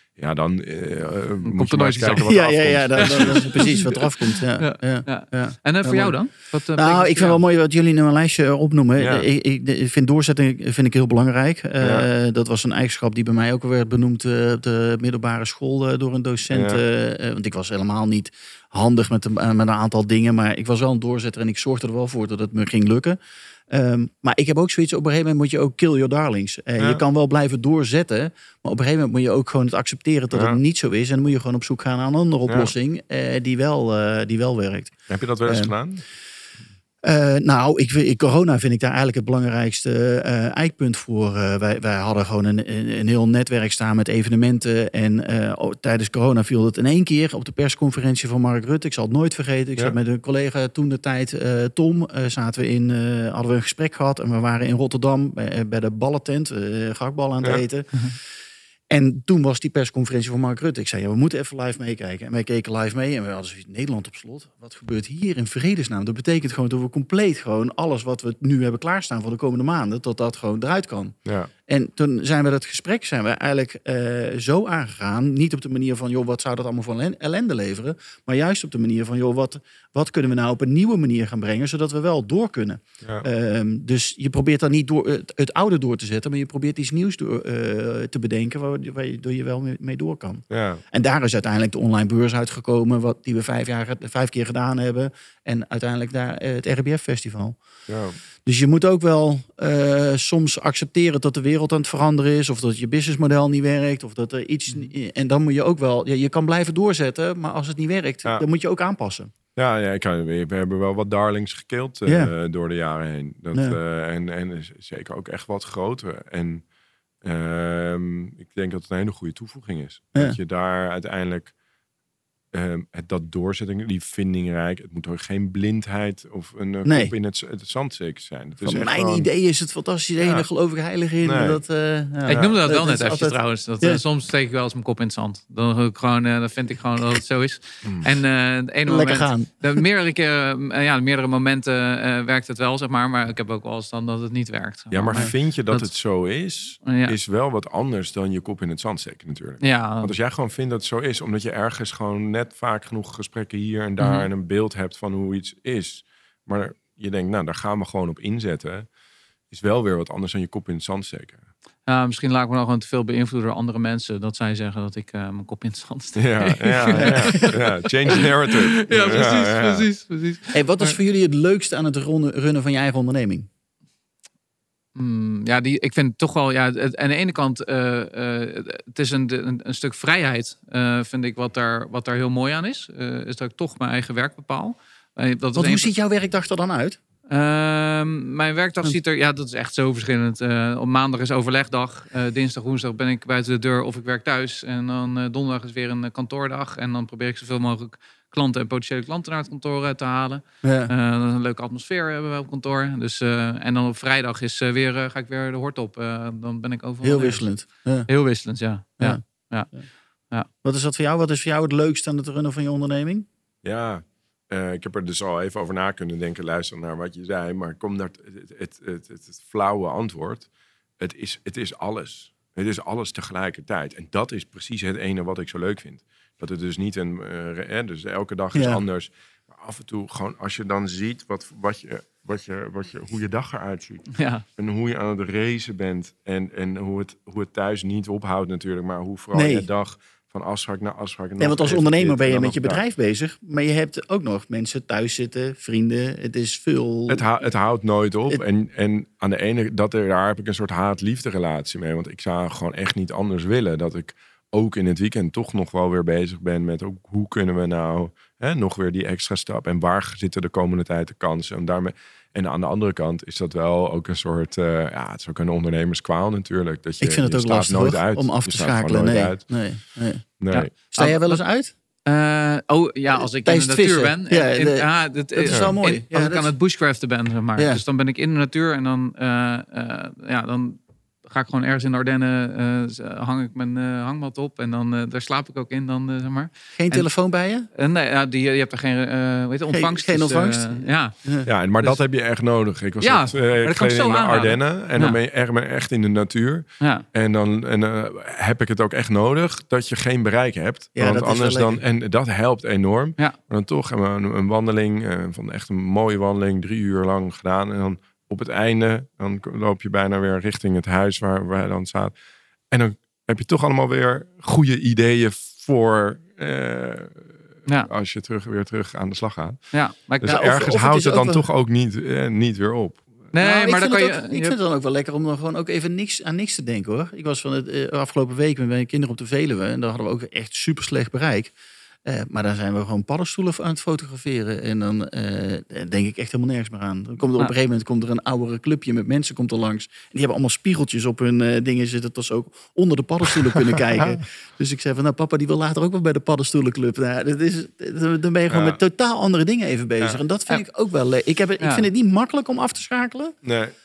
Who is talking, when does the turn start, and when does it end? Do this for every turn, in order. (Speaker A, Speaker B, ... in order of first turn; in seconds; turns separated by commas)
Speaker A: 0.2-3.7, Speaker B: 1.4-2.3, Speaker C: 2.3-6.2, Speaker B: 3.0-7.4, Speaker C: 6.8-23.2, Speaker A: 9.0-9.3, Speaker A: 11.8-12.1, Speaker A: 16.5-16.8, Speaker C: 23.7-35.7, Speaker A: 30.3-30.6, Speaker A: 32.5-32.7, Speaker A: 35.1-36.0, Speaker C: 37.0-58.0, Speaker C: 58.9-71.2, Speaker A: 71.2-71.5, Speaker C: 71.7-97.6, Speaker A: 90.5-90.8, Speaker A: 97.9-98.2, Speaker C: 98.4-109.3, Speaker A: 109.6-116.6, Speaker C: 112.1-112.3, Speaker A: 117.2-121.5, Speaker A: 122.5-129.3, Speaker C: 126.8-127.1, Speaker C: 128.6-134.0, Speaker A: 131.2-131.6, Speaker B: 132.3-145.9, Speaker A: 132.3-132.6, Speaker C: 138.9-139.8, Speaker A: 144.9-158.9, Speaker B: 146.8-147.2, Speaker B: 149.6-150.1, Speaker B: 154.0-154.3, Speaker A: 159.5-161.4, Speaker B: 161.9-171.0, Speaker A: 166.2-169.9, Speaker C: 167.0-167.5, Speaker C: 169.0-169.3, Speaker C: 170.5-173.5, Speaker B: 174.9-185.9, Speaker C: 185.6-187.0, Speaker B: 187.3-210.5, Speaker C: 200.6-200.9, Speaker C: 207.0-208.1, Speaker C: 210.6-213.3, Speaker A: 213.6-220.5, Speaker A: 221.0-242.8, Speaker C: 228.5-228.8, Speaker B: 234.1-234.4, Speaker C: 239.3-239.7, Speaker C: 241.4-247.2, Speaker A: 247.1-269.4, Speaker C: 267.0-270.3, Speaker A: 270.4-270.7, Speaker B: 270.5-271.4, Speaker C: 270.9-271.7, Speaker B: 272.1-287.1, Speaker C: 273.1-276.5, Speaker A: 275.5-275.8, Speaker C: 286.8-287.7, Speaker B: 287.7-292.0, Speaker C: 289.7-291.5, Speaker A: 291.5-312.1, Speaker B: 293.0-295.2, Speaker C: 301.0-301.8, Speaker A: 312.7-319.6, Speaker B: 319.7-320.4, Speaker A: 320.2-323.1, Speaker C: 320.2-321.4, Speaker B: 323.3-324.6, Speaker C: 323.4-331.5, Speaker C: 332.1-353.4, Speaker A: 343.8-344.2, Speaker A: 348.5-348.8, Speaker B: 351.6-351.9, Speaker A: 353.4-353.7